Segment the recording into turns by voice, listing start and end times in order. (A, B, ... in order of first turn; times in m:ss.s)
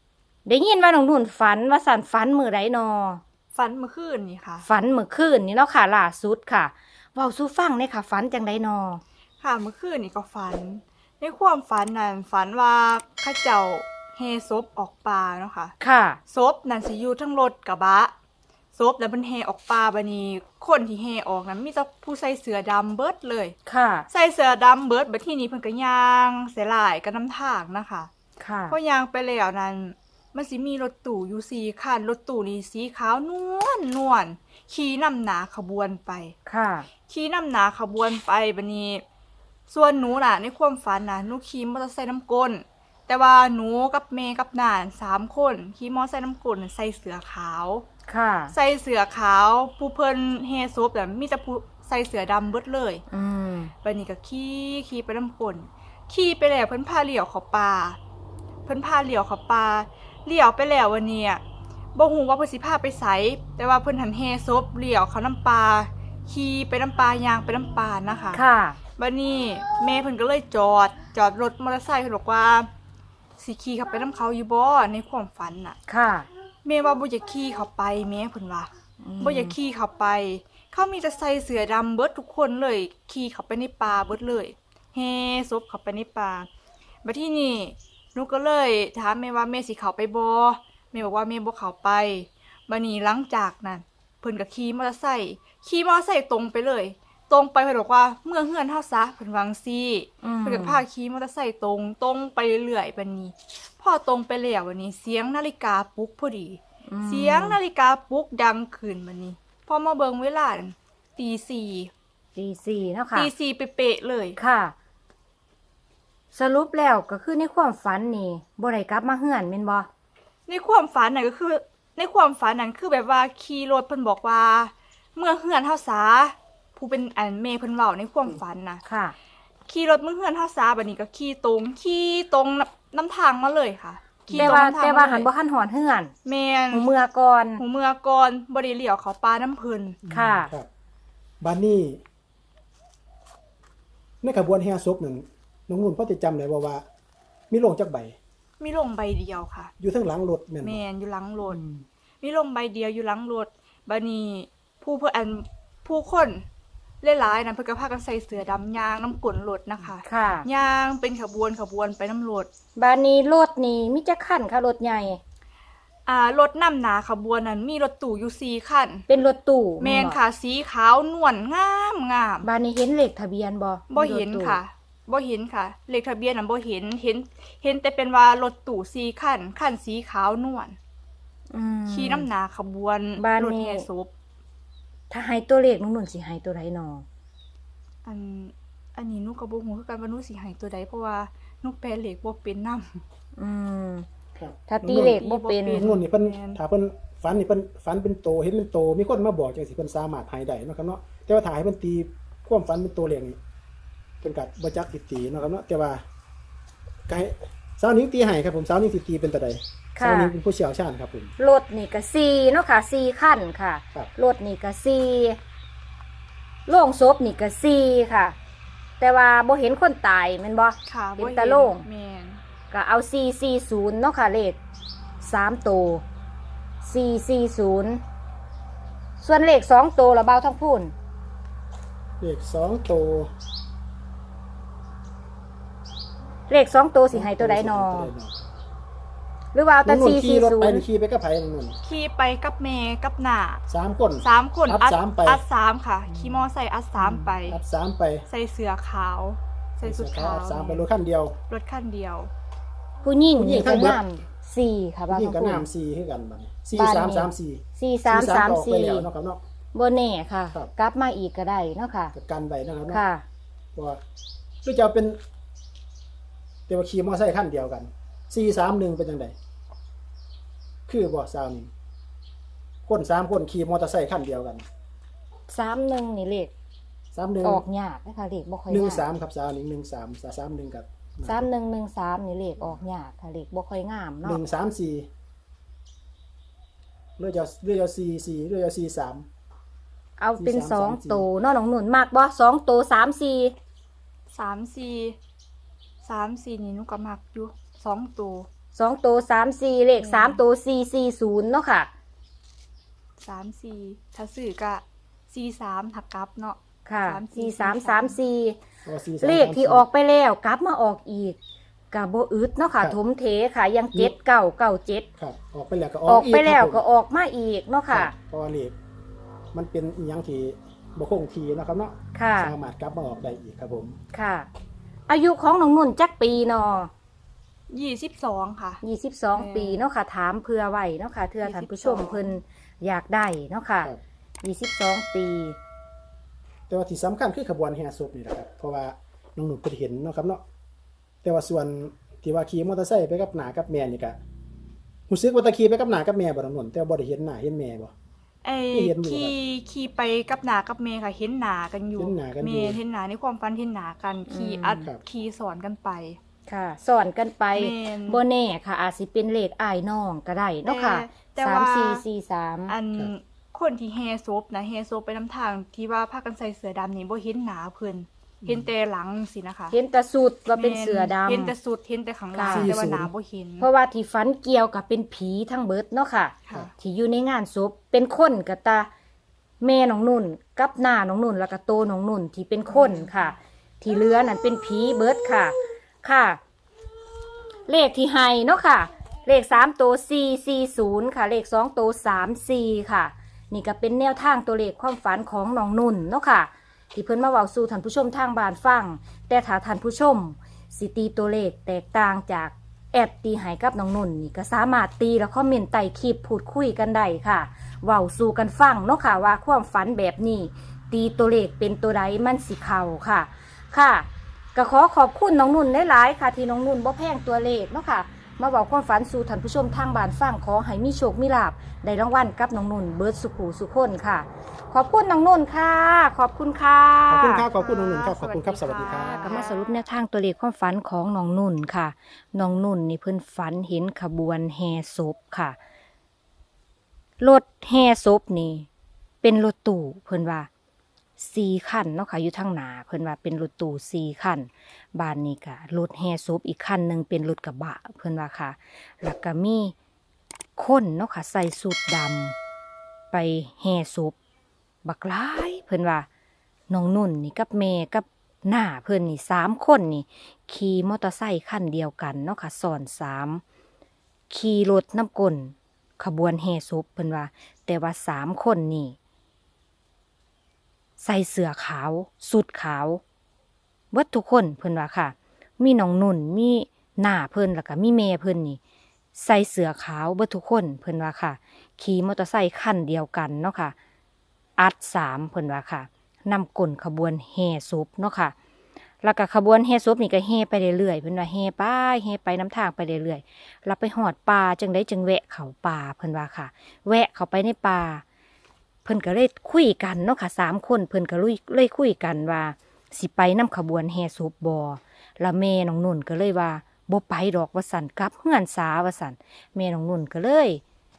0:00.4-0:03.2 A
0:03.6-0:04.7 B
0:04.6-0:09.0 A
0:09.4-0:15.8 B
0:15.8-0:16.2 A
0:16.3-0:18.1 B
0:18.8-0:23.6 B
0:23.7-0:24.1 A
0:24.1-0:28.1 B
0:28.4-0:28.8 A
0:28.7-0:36.3 B
0:36.5-0:36.9 A
0:37.1-0:39.0 B
0:39.7-0:47.9 B
0:48.1-0:48.6 A
0:48.5-0:53.0 B
0:53.1-0:53.7 A
0:53.8-0:58.0 B
0:58.7-1:01.4 B
1:02.0-1:08.4 B
1:08.3-1:08.8 A
1:09.0-1:12.7 B
1:13.4-1:15.8 B
1:15.9-1:16.3 A
1:16.6-1:26.5 B
1:19.0-1:19.5 A
1:27.0-1:51.9 B
1:40.2-1:40.8 A
1:46.9-1:47.6 A
1:52.4-1:53.3 A
1:53.2-1:54.4 B
1:54.4-1:54.7 A
1:56.3-1:59.9 A
2:00.5-2:08.8 B
2:08.8-2:09.2 A
2:09.7-2:15.3 B
2:14.3-2:16.1 A
2:16.2-2:16.9 B
2:16.7-2:17.6 A
2:17.6-2:20.0 B
2:20.0-2:20.7 C
2:20.1-2:20.5 A
2:21.4-2:22.0 C
2:24.2-2:26.8 C
2:27.5-2:28.2 C
2:28.6-2:29.7 B
2:29.8-2:30.8 C
2:30.6-2:31.6 B
2:31.5-2:31.8 A
2:32.2-2:36.4 B
2:37.0-2:42.5 B
2:40.0-2:40.5 A
2:42.8-2:45.2 A
2:46.1-2:49.0 B
2:49.1-2:50.2 A
2:49.8-2:52.5 B
2:52.4-2:54.6 A
2:53.9-3:00.8 B
3:01.5-3:02.3 A
3:01.9-3:04.1 B
3:03.2-3:03.9 A
3:05.1-3:07.0 A
3:08.0-3:13.0 B
3:13.4-3:14.1 A
3:14.4-3:15.2 C
3:14.7-3:15.9 A
3:15.0-3:16.6 B
3:15.7-3:23.4 C
3:24.2-3:26.0 C
3:27.1-3:31.3 C
3:30.0-3:30.3 A
3:31.4-3:35.4 A
3:36.7-3:38.4 A
3:39.0-3:41.9 A
3:40.9-3:42.4 B
3:42.7-3:44.6 A
3:45.2-3:46.0 A
3:46.8-3:48.0 A
3:49.2-3:50.9 A
3:52.2-3:53.3 C
3:56.5-3:58.1 A
3:57.1-3:58.4 C
3:59.5-4:00.8 A
3:59.9-4:01.8 C
4:01.8-4:03.6 B
4:03.7-4:05.4 C
4:04.2-4:07.6 B
4:07.0-4:08.2 C
4:08.3-4:10.9 B
4:09.8-4:11.4 C
4:11.5-4:12.3 B
4:13.0-4:15.7 A
4:13.4-4:14.0 C
4:15.1-4:19.4 C
4:16.8-4:19.1 A
4:19.7-4:22.1 A
4:22.1-4:23.0 C
4:22.9-4:23.2 A
4:23.8-4:24.0 C
4:24.6-4:25.2 C
4:26.7-4:29.4 C
4:30.9-4:31.7 C
4:32.9-4:34.7 C
4:35.5-4:36.5 A
4:37.1-4:37.6 C
4:37.4-4:39.0 A
4:38.7-4:41.4 C
4:41.2-4:44.4 A
4:44.2-4:45.1 C
4:47.2-4:49.3 C
4:50.2-4:53.6 A
4:50.4-4:51.3 C
4:54.3-4:55.2 B
4:56.0-4:58.5 B
4:58.8-5:01.9 A
5:00.0-5:00.4 B
5:03.2-5:08.2 B
5:06.9-5:08.6 A
5:08.8-5:09.9 C
5:09.2-5:11.4 A
5:11.9-5:15.1 A
5:15.2-5:16.8 C
5:16.1-5:18.1 A
5:17.9-5:18.8 C
5:19.5-5:24.0 C
5:22.1-5:22.5 A
5:24.1-5:24.5 A
5:25.1-5:26.9 A
5:27.7-5:28.8 B
5:28.8-5:35.6 A
5:29.3-5:29.8 B
5:31.4-5:32.3 B
5:36.7-5:40.4 C
5:41.2-5:44.2 C
5:45.1-5:47.9 C
5:48.4-5:56.2 B
5:48.7-5:49.3 C
5:52.0-5:52.8 C
5:54.3-5:54.9 A
5:56.5-6:02.7 A
5:57.6-5:58.2 B
6:00.6-6:02.0 B
6:02.7-6:09.8 B
6:08.4-6:08.7 C
6:09.7-6:11.5 A
6:10.6-6:13.7 B
6:12.3-6:12.8 A
6:12.5-6:13.1 C
6:13.6-6:18.9 A
6:16.5-6:16.7 B
6:19.6-6:26.4 A
6:22.7-6:23.2 B
6:27.7-7:07.4 A
7:07.1-7:09.4 C
7:07.5-7:09.8 B
7:09.2-7:15.6 A
7:17.2-7:18.7 A
7:19.2-7:20.5 A
7:21.2-7:29.7 A
7:30.6-7:32.4 A
7:33.1-7:34.2 A
7:34.8-7:36.1 A
7:36.7-7:43.4 A
7:44.3-7:49.0 A
7:51.0-7:53.0 A
7:53.9-7:58.6 A
7:59.2-8:03.8 A
8:04.6-8:08.3 A
8:09.0-8:18.0 A
8:18.8-8:30.6 A